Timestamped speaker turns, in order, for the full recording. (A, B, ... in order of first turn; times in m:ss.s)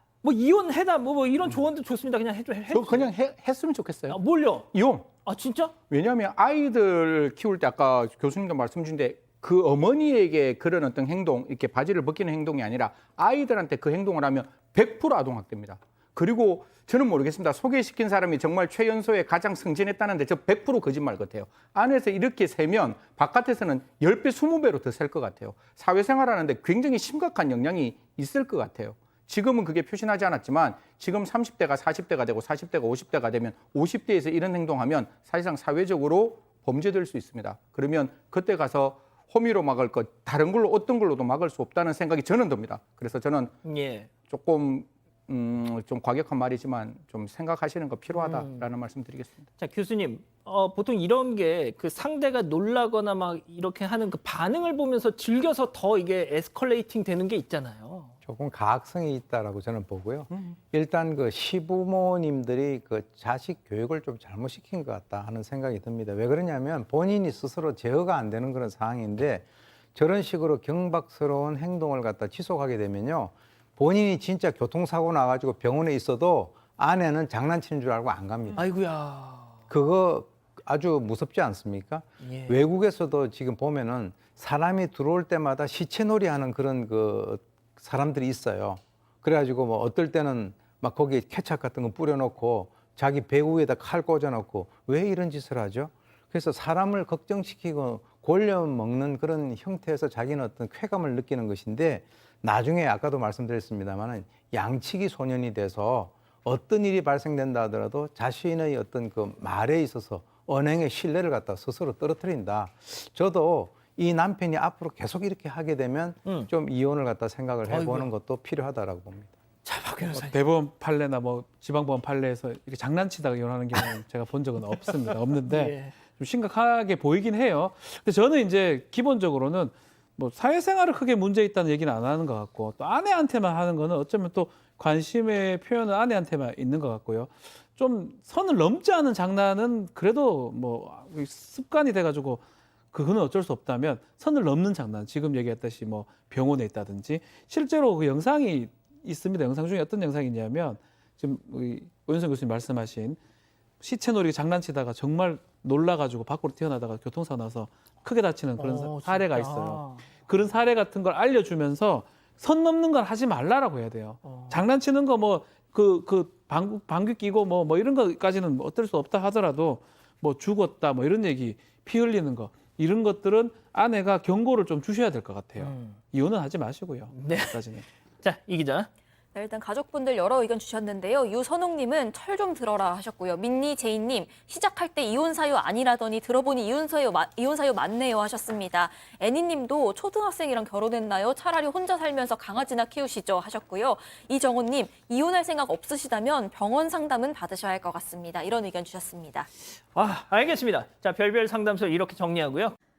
0:00.2-0:03.1 A
0:02.7-0:04.2 B
0:04.1-0:05.8 A
0:04.7-0:05.1 B
0:05.8-0:43.5 B
0:43.6-0:44.2 A
0:44.2-0:49.5 B
0:48.1-0:48.7 A
0:49.6-0:58.1 A
0:58.2-1:18.6 C
1:18.6-1:19.6 A
1:19.7-1:59.4 C
1:22.2-1:22.6 A
1:57.7-1:58.1 A
1:59.6-2:00.4 A
2:00.2-2:33.2 D
2:05.4-2:06.0 A
2:33.8-2:57.8 D
2:38.6-2:40.1 A
2:44.2-2:44.6 A
2:55.6-2:56.0 A
2:57.1-2:57.7 A
2:58.2-2:58.9 A
2:59.3-3:19.5 E
3:19.9-3:22.7 A